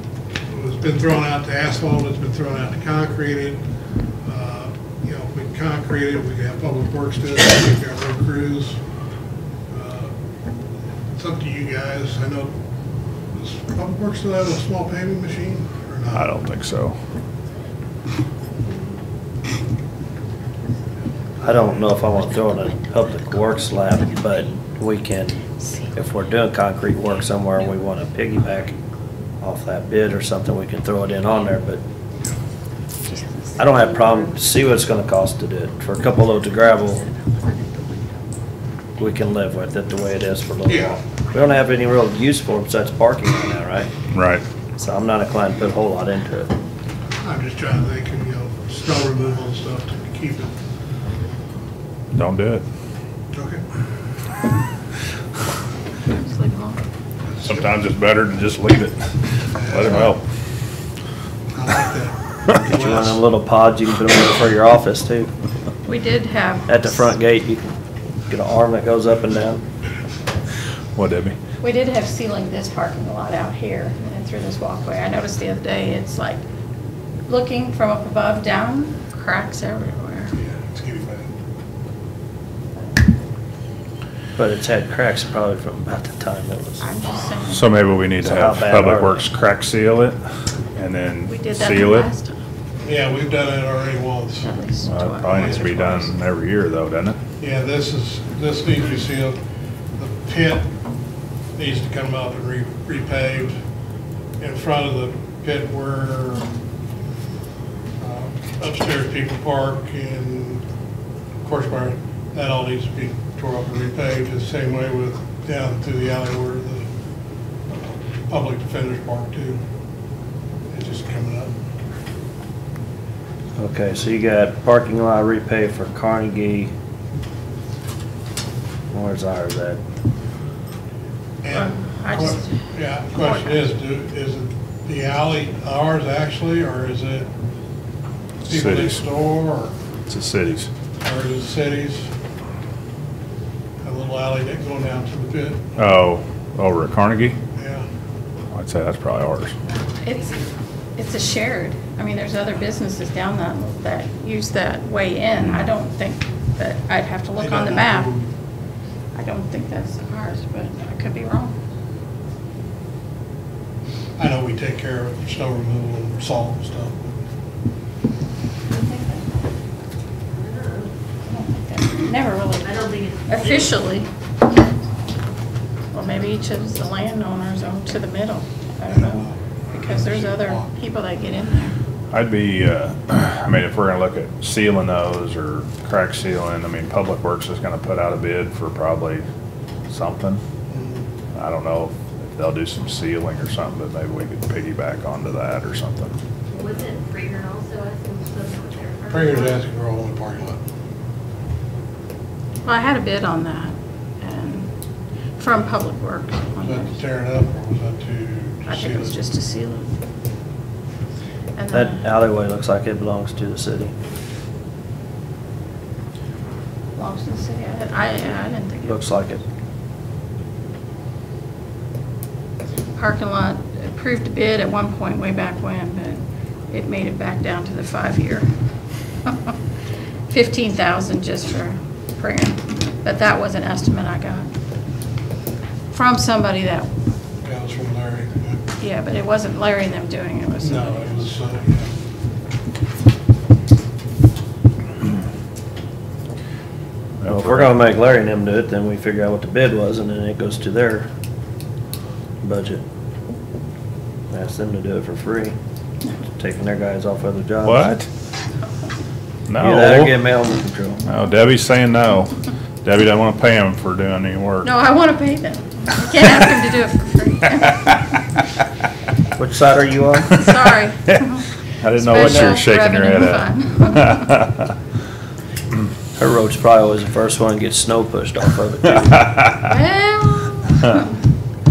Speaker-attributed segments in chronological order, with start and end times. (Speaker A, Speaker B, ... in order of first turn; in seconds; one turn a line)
Speaker A: 0.5-3.6
Speaker A: 4.2-8.7
Speaker A: 9.7-10.1
Speaker A: 11.2-12.5
Speaker A: 13.3-16.3
Speaker B: 16.1-16.9
Speaker C: 21.4-25.4
Speaker C: 25.9-28.8
Speaker C: 29.4-31.8
Speaker C: 33.6-37.1
Speaker C: 39.0-43.9
Speaker A: 40.7-41.0
Speaker B: 44.1-44.4
Speaker C: 44.8-46.5
Speaker A: 47.2-50.5
Speaker B: 52.1-52.6
Speaker A: 53.3-53.6
Speaker D: 56.0-56.8
Speaker A: 57.3-57.6
Speaker B: 57.4-60.2
Speaker A: 59.5-60.2
Speaker A: 61.5-63.2
Speaker C: 62.6-65.3
Speaker D: 65.8-67.1
Speaker C: 66.7-69.6
Speaker B: 70.9-71.3
Speaker D: 71.6-76.4
Speaker D: 77.3-80.3
Speaker A: 80.3-81.3
Speaker C: 84.3-86.9
Speaker D: 86.8-87.8
Speaker B: 87.5-90.2
Speaker C: 88.2-89.2
Speaker B: 90.8-92.1
Speaker D: 91.3-92.4
Speaker A: 92.8-94.5
Speaker D: 94.4-96.0
Speaker B: 94.8-97.2
Speaker A: 95.3-96.0
Speaker A: 97.4-99.4
Speaker A: 100.0-100.7
Speaker A: 101.6-103.5
Speaker A: 104.4-106.5
Speaker A: 108.0-110.6
Speaker A: 111.4-116.9
Speaker A: 117.7-119.6
Speaker A: 120.7-121.5
Speaker C: 123.6-126.7
Speaker C: 128.9-129.8
Speaker A: 131.4-137.3
Speaker D: 131.5-132.5
Speaker D: 133.2-133.6
Speaker B: 138.4-139.0
Speaker A: 138.5-139.8
Speaker B: 140.1-140.7
Speaker A: 141.0-142.1
Speaker A: 143.8-145.6
Speaker B: 145.8-147.4
Speaker A: 147.5-147.9
Speaker B: 148.5-149.6
Speaker D: 150.0-150.4
Speaker D: 150.9-158.1
Speaker A: 157.3-158.3
Speaker D: 159.1-161.5
Speaker A: 164.2-167.1
Speaker D: 168.7-169.3
Speaker E: 170.3-170.9
Speaker D: 171.2-174.1
Speaker E: 172.6-173.7
Speaker D: 175.9-181.8
Speaker A: 178.9-180.7
Speaker B: 182.1-189.2
Speaker B: 189.9-190.4
Speaker A: 190.7-191.1
Speaker B: 191.3-196.1
Speaker E: 196.5-199.6
Speaker A: 199.1-200.6
Speaker D: 202.6-204.7
Speaker D: 205.4-207.0
Speaker A: 206.6-209.1
Speaker D: 208.7-209.9
Speaker D: 211.6-212.0
Speaker C: 211.7-213.9
Speaker D: 216.9-219.0
Speaker C: 218.8-219.4
Speaker D: 223.0-228.5
Speaker D: 229.2-229.5
Speaker D: 230.3-234.5
Speaker D: 235.9-236.9
Speaker A: 237.4-238.6
Speaker D: 238.8-241.3
Speaker A: 240.6-241.9
Speaker B: 247.2-247.7
Speaker C: 247.3-251.1
Speaker C: 252.4-252.8
Speaker C: 254.3-255.5
Speaker C: 256.2-257.9
Speaker B: 257.6-258.1
Speaker B: 259.5-260.1
Speaker C: 259.6-261.0
Speaker B: 261.1-264.7
Speaker D: 264.6-268.0
Speaker C: 269.4-270.4
Speaker D: 270.3-274.4
Speaker B: 270.4-271.2
Speaker B: 271.8-274.7
Speaker C: 276.1-279.4
Speaker D: 279.6-281.2